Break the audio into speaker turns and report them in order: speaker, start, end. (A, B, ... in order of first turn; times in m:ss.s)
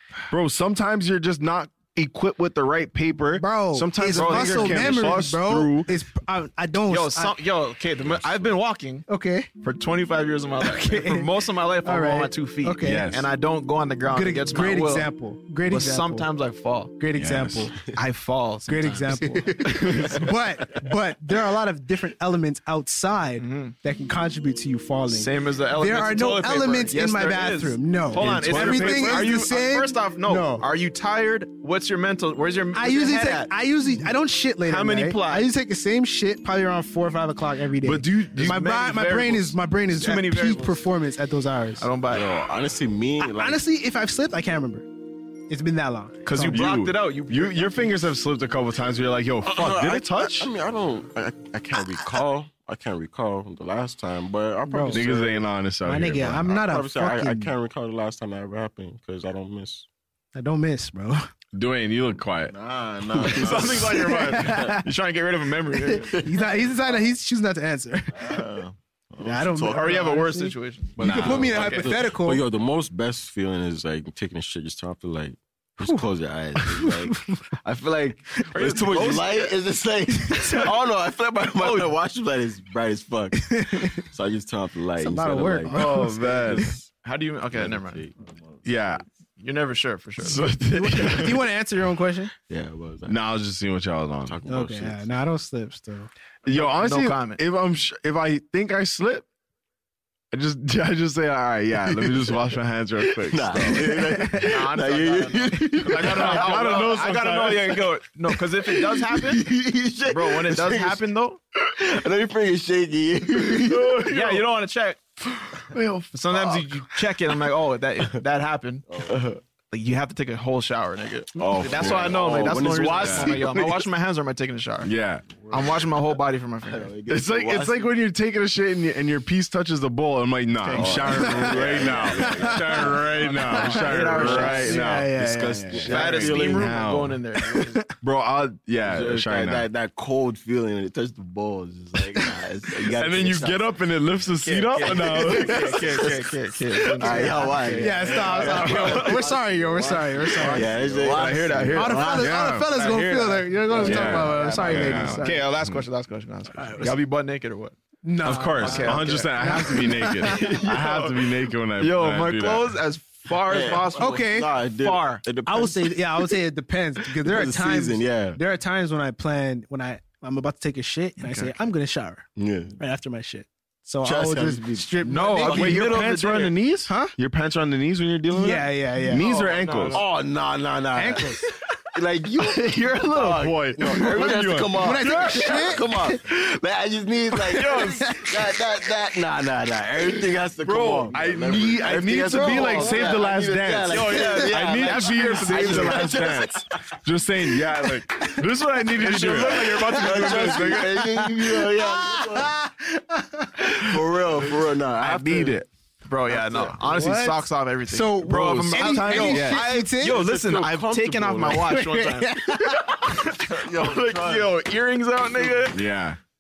0:00.3-0:05.9 A
0:03.4-0:07.4 B
0:04.1-0:05.2 C
0:06.9-0:09.1 C
0:08.0-0:08.5 D
0:09.1-0:09.5 B
0:09.6-0:15.1 C
0:10.6-0:11.3 B
0:11.8-0:13.1 B
0:12.8-0:13.3 A
0:14.1-0:16.3 B
0:15.6-0:16.9 C
0:17.0-0:17.7 B
0:17.2-0:17.7 A
0:17.9-0:20.3 C
0:18.7-0:30.7 B
0:19.4-0:20.2 D
0:23.4-0:23.8 C
0:25.1-0:33.5 C
0:28.1-0:29.4 A
0:32.8-0:41.9 B
0:34.6-0:35.5 C
0:37.8-0:39.4 A
0:38.3-0:40.8 C
0:41.8-0:42.4 C
0:42.1-0:43.6 D
0:43.2-0:44.9 B
0:45.5-0:46.6 B
0:46.2-0:47.9 C
0:46.5-0:50.5 A
0:49.4-0:55.5 D
0:54.7-0:55.1 B
0:54.9-0:56.5 A
0:55.8-0:57.5 B
0:56.2-0:59.9 D
1:00.3-1:01.3 B
1:01.5-1:02.6 A
1:02.5-1:03.9 E
1:03.1-1:04.8 D
1:03.1-1:04.3 A
1:03.4-1:06.1 C
1:04.1-1:04.9 B
1:05.8-1:08.5 B
1:05.9-1:06.4 D
1:08.2-1:10.0 E
1:09.2-1:12.4 B
1:09.6-1:11.9 C
1:11.0-1:26.9 D
1:11.0-1:11.8 A
1:16.6-1:17.4 B
1:18.5-1:19.6 C
1:20.3-1:20.6 B
1:21.6-1:21.9 C
1:23.3-1:24.0 B
1:25.0-1:26.2 B
1:25.7-1:26.7 A
1:27.0-1:28.1 C
1:27.5-1:29.0 D
1:28.6-1:29.0 A
1:29.4-1:30.5 C
1:30.2-1:31.4 A
1:30.7-1:32.3 B
1:32.5-1:33.2 D
1:33.1-1:34.4 A
1:34.2-1:35.1 D
1:34.5-1:36.1 B
1:36.4-1:39.2 A
1:36.5-1:37.4 C
1:40.3-1:44.2 A
1:41.9-1:47.0 D
1:44.4-1:49.4 C
1:45.8-1:47.9 A
1:48.6-1:51.0 D
1:50.1-1:51.4 C
1:51.6-1:54.0 D
1:53.4-1:54.4 A
1:54.1-1:55.0 C
1:55.4-1:56.8 A
1:56.1-1:58.8 C
1:58.9-1:59.4 D
1:59.7-2:04.9 C
2:01.4-2:03.5 D
2:01.4-2:03.9 A
2:04.8-2:05.2 A
2:05.4-2:05.8 D
2:05.5-2:06.9 C
2:06.6-2:07.9 D
2:07.1-2:17.2 A
2:10.6-2:14.8 C
2:10.7-2:13.0 D
2:12.2-2:16.0 B
2:14.1-2:14.8 D
2:15.7-2:16.9 D
2:15.9-2:17.9 C
2:18.0-2:19.7 A
2:18.8-2:23.7 D
2:22.9-2:26.1 A
2:24.4-2:29.3 C
2:24.9-2:26.1 D
2:27.0-2:32.3 D
2:27.2-2:30.7 B
2:28.5-2:29.0 A
2:29.9-2:37.8 C
2:30.4-2:32.8 A
2:31.7-2:35.4 B
2:33.8-2:35.8 A
2:33.8-2:35.1 D
2:36.5-2:37.0 B
2:38.0-2:40.6 B
2:38.2-2:42.8 A
2:38.6-2:39.6 C
2:40.2-2:45.2 C
2:43.4-2:46.4 D
2:44.0-2:44.5 B
2:45.4-2:52.3 B
2:47.2-2:48.4 D
2:51.2-2:51.5 C
2:52.4-2:52.8 D
2:52.8-2:56.1 B
2:54.0-2:54.9 D
2:55.0-2:56.6 C
2:55.4-3:00.0 A
2:56.9-2:57.1 B
2:58.3-2:59.3 B
2:59.1-3:00.1 C
2:59.9-3:16.6 D
3:01.0-3:01.4 B
3:02.4-3:05.7 A
3:04.8-3:06.2 B
3:07.5-3:08.1 A
3:10.6-3:21.1 A
3:12.3-3:13.1 B
3:13.9-3:16.5 C
3:18.8-3:20.9 C
3:19.9-3:22.6 D
3:20.7-3:23.6 B
3:23.6-3:24.4 A
3:23.7-3:25.6 D
3:25.0-3:25.7 A
3:26.1-3:35.8 C
3:26.3-3:26.8 D
3:26.8-3:30.2 B
3:28.2-3:29.7 A
3:30.0-3:31.8 D
3:31.5-3:33.1 B
3:33.5-3:34.5 D
3:35.7-3:36.2 A